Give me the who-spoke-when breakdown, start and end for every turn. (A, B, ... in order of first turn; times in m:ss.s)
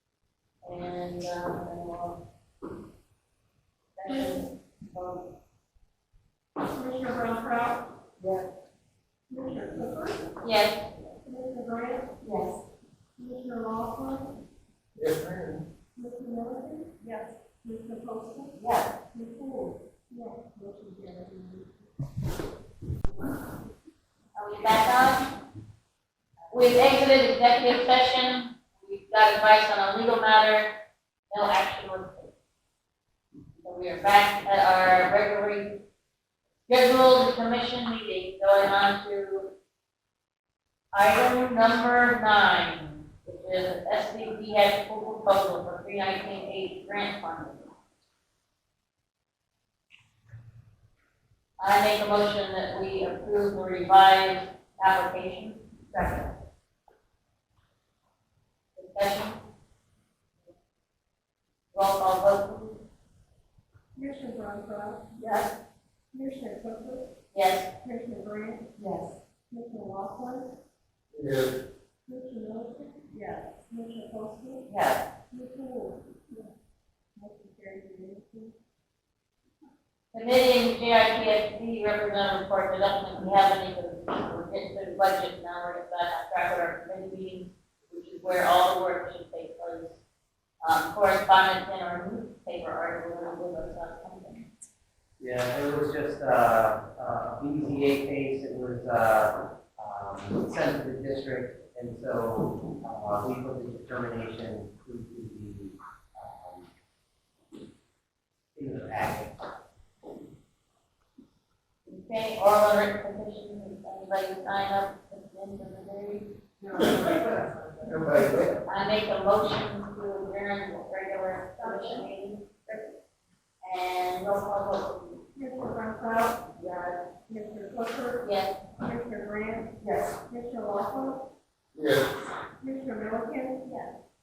0:00.6-0:02.2 A
0:04.0-0:05.3 A
0:04.0-0:04.4 B
0:06.6-0:07.9 B
0:09.3-0:10.4 B
0:10.4-0:10.8 A
0:11.2-0:12.2 B
0:13.2-0:14.4 B
0:15.0-0:15.6 C
0:16.0-0:21.9 B
0:24.3-0:25.3 A
0:26.5-0:30.7 A
0:31.3-0:32.3 A
0:33.6-0:35.8 A
0:36.7-0:39.5 A
0:40.9-0:47.7 A
0:51.6-0:56.3 A
0:58.8-0:59.4 A
1:01.7-1:02.8 A
1:04.0-1:05.1 B
1:05.2-1:05.5 A
1:06.1-1:07.1 B
1:07.3-1:07.7 A
1:07.8-1:08.8 B
1:09.5-1:10.5 B
1:11.1-1:11.5 C
1:12.1-1:14.7 B
1:14.7-1:14.9 A
1:15.3-1:16.5 B
1:17.2-1:18.5 B
1:20.1-1:30.0 A
1:30.6-1:34.5 A
1:35.2-1:46.7 D
1:48.5-1:49.4 D
1:51.8-1:56.3 A
1:56.6-1:57.6 B
1:57.8-1:58.6 C
1:58.7-2:02.5 A
2:01.6-2:02.0 B
2:03.6-2:05.2 A
2:05.3-2:06.5 B
2:07.2-2:08.2 B
2:08.2-2:08.6 A
2:08.8-2:11.3 B
2:11.8-2:12.1 C
2:12.6-2:13.9 B